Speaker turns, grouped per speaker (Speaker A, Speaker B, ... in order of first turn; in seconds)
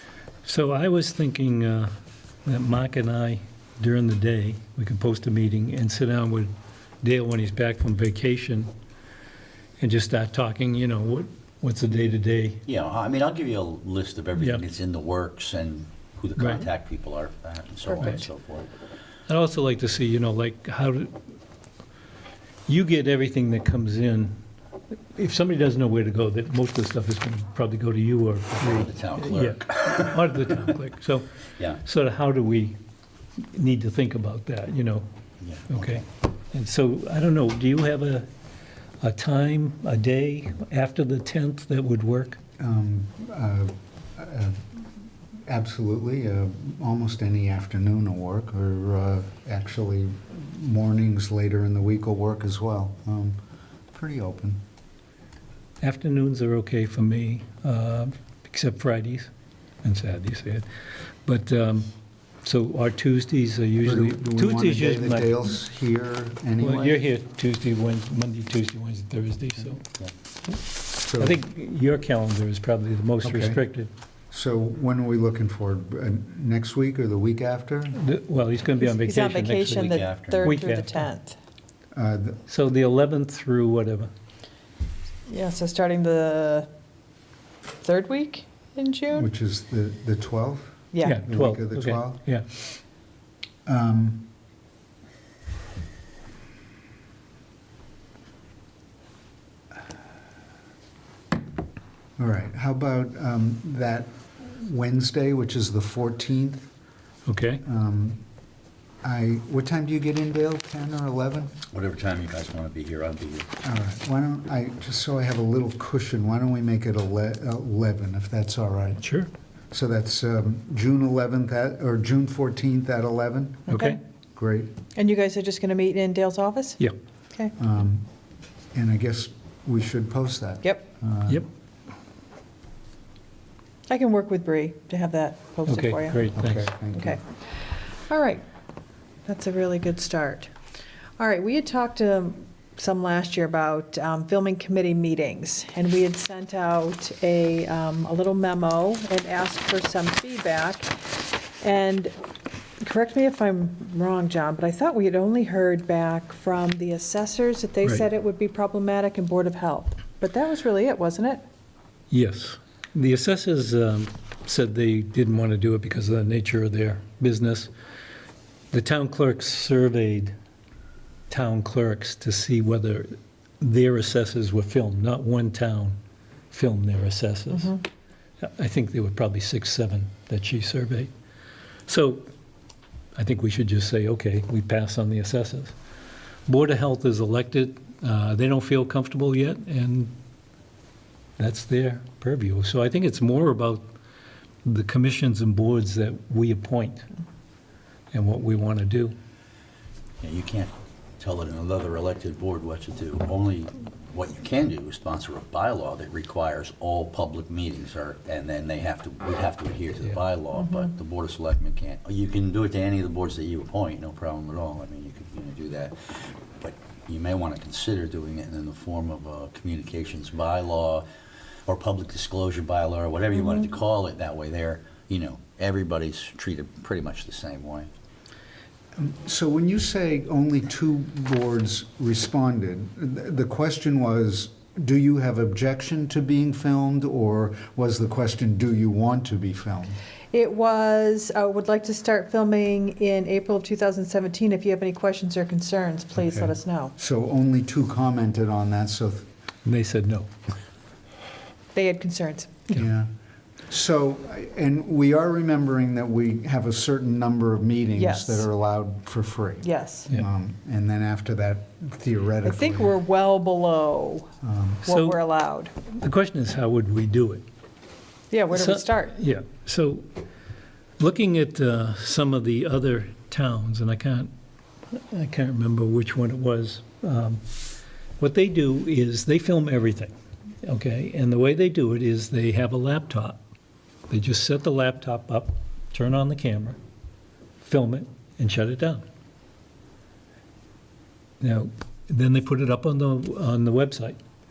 Speaker A: 0.4-1.9, 2.4-6.5, 7.0-8.7, 9.8-12.6, 14.4-14.6, 16.4-16.7, 19.3-21.1, 22.7-24.3, 25.1-31.2, 31.8-32.8, 33.4-35.0, 35.7-38.3, 39.0-42.4, 55.8-59.3, 59.8-60.7, 61.2-61.9, 62.4-65.3, 66.6-69.8, 71.2-73.9, 77.9-81.1, 82.5-84.1, 91.0-92.5, 107.3-107.6, 119.0-119.3, 123.7-124.0, 135.7-136.7, 162.1-167.7, 168.7-170.3, 171.3-175.9, 176.5-177.8, 178.4-181.1, 181.9-182.3, 183.1-185.7, 186.5-190.1, 191.4-193.8, 194.6-197.1, 198.1-199.1, 249.6-250.3, 264.9-265.2, 265.9-267.4, 268.5-270.0, 271.0-274.3, 274.9-277.4, 278.2-280.1, 280.6-283.4, 284.1-286.8, 287.6-289.0, 291.4-294.2
Speaker B: 12.7-18.7, 28.6-30.4, 35.4-36.0, 79.6-80.6, 111.7-113.5, 200.2-221.1, 221.7-227.9
Speaker C: 17.9-18.2, 78.8-81.4, 85.3-86.7, 87.8-89.3, 90.9-91.2, 123.7-124.0, 124.9-126.8, 133.9-136.3, 136.9-138.4, 139.2-140.5, 141.2-150.9, 151.6-152.1, 152.8-161.4, 177.5-177.8, 240.3-246.9, 251.7-252.7, 257.9-258.5, 259.6-260.1, 262.4-264.3, 264.8-265.7, 268.3-269.2
Speaker D: 42.6-44.6, 45.5-53.4, 53.9-54.6, 63.8-67.0, 71.0-71.4, 73.2-73.6, 74.3-78.0, 81.9-82.4, 89.1-92.2, 93.7-94.3, 102.2-106.7, 107.6-108.2, 109.0-111.5, 113.6-119.0, 119.7-123.8, 124.3-124.7, 127.6-128.1, 128.7-131.5, 136.3-137.2, 228.9-240.0, 246.2-249.3, 252.7-253.1, 253.7-262.9, 264.4-264.9